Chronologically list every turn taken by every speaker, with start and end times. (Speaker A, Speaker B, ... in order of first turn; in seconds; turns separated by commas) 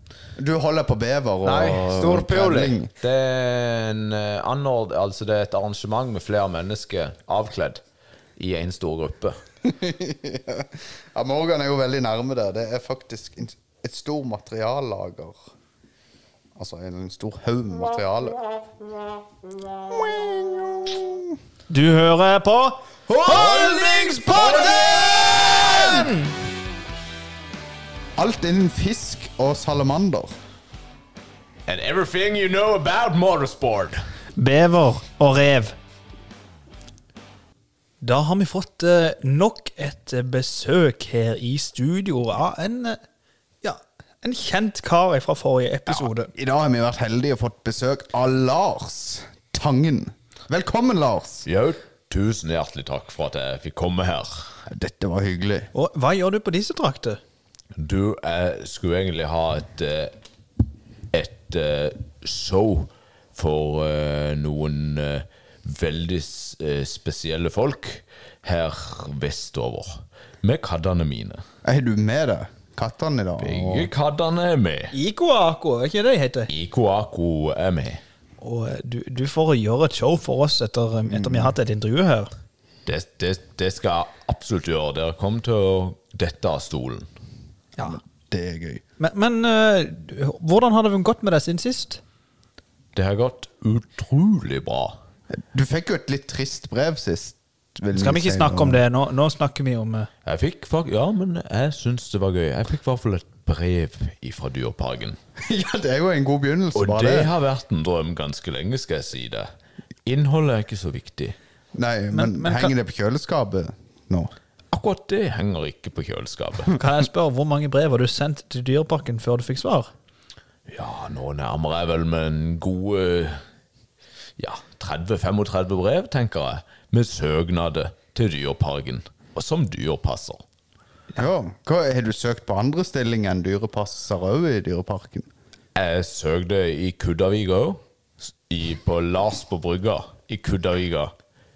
Speaker A: 0.4-2.9, Speaker B: 1.4-7.8, Speaker B: 8.4-9.3, Speaker A: 9.6-15.4, Speaker A: 16.6-18.4, Speaker A: 19.9-21.3, Speaker C: 21.7-24.9, Speaker B: 23.1-26.1, Speaker C: 25.7-26.3, Speaker A: 28.1-30.3, Speaker B: 31.6-34.0, Speaker C: 34.4-35.8, Speaker C: 38.0-43.0, Speaker C: 43.6-46.3, Speaker A: 45.9-51.4, Speaker B: 51.4-54.6, Speaker A: 54.7-55.7, Speaker C: 55.7-57.2, Speaker B: 57.8-60.1, Speaker B: 61.1-71.4, Speaker A: 71.6-73.9, Speaker B: 73.4-74.9, Speaker C: 74.9-76.5, Speaker B: 76.5-78.0, Speaker C: 78.4-82.3, Speaker A: 81.1-81.5, Speaker B: 82.8-87.1, Speaker A: 87.8-88.8, Speaker C: 89.0-92.0, Speaker B: 92.9-95.0, Speaker A: 95.3-98.8, Speaker C: 97.9-100.1, Speaker B: 100.2-105.2, Speaker A: 105.4-107.3, Speaker B: 106.7-109.5, Speaker B: 110.0-111.3, Speaker A: 111.7-114.3, Speaker C: 112.1-112.7, Speaker B: 114.7-116.7, Speaker C: 116.7-119.9, Speaker B: 120.7-123.4, Speaker B: 124.4-130.4, Speaker A: 131.2-135.3, Speaker B: 135.7-137.8, Speaker B: 138.5-141.1